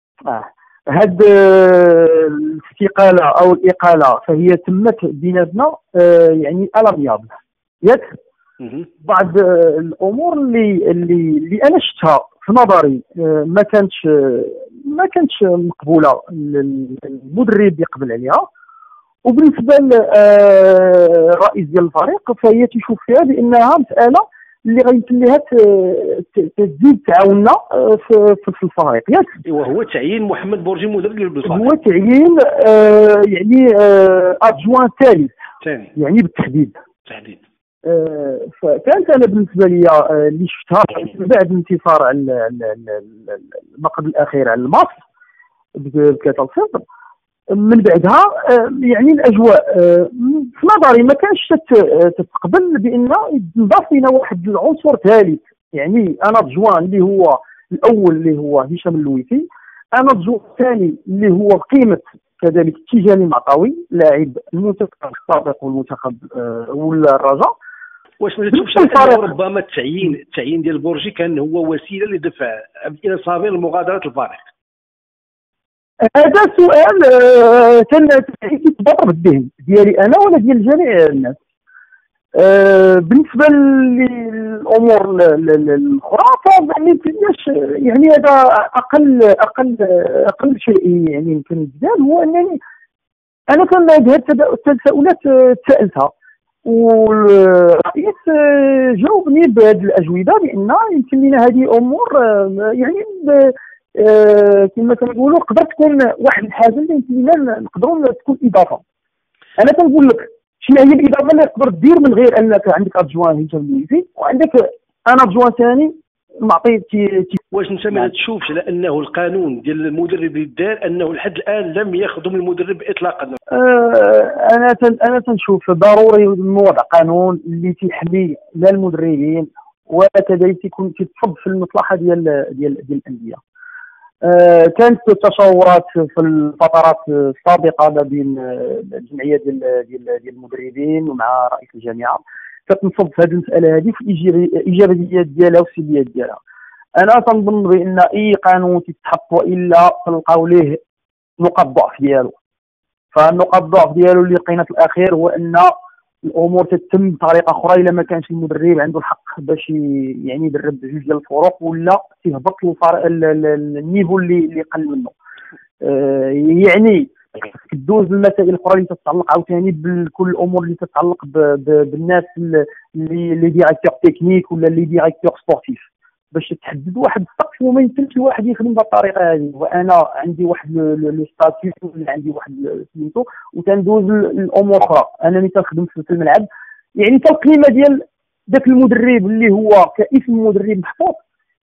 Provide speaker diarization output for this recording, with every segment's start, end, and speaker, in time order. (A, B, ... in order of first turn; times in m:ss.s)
0:00.2-0:08.2 A
0:09.0-0:18.5 A
0:19.2-0:29.4 A
0:29.4-0:31.7 B
0:31.4-0:35.3 A
0:35.6-0:35.9 B
0:36.0-0:36.7 A
0:37.1-0:37.4 B
0:37.8-0:45.0 A
0:45.8-0:46.8 A
0:47.5-1:07.6 A
1:08.2-1:14.5 B
1:08.5-1:09.3 A
1:16.0-1:21.4 A
1:22.4-1:32.6 A
1:33.5-1:36.1 A
1:36.6-1:48.8 A
1:49.6-1:57.4 A
1:57.5-2:03.4 B
2:03.5-2:13.4 A
2:14.2-2:26.4 A
2:27.0-2:30.8 A
2:31.4-2:32.4 A
2:33.1-2:35.7 A
2:36.2-2:45.1 A
2:45.8-3:11.2 A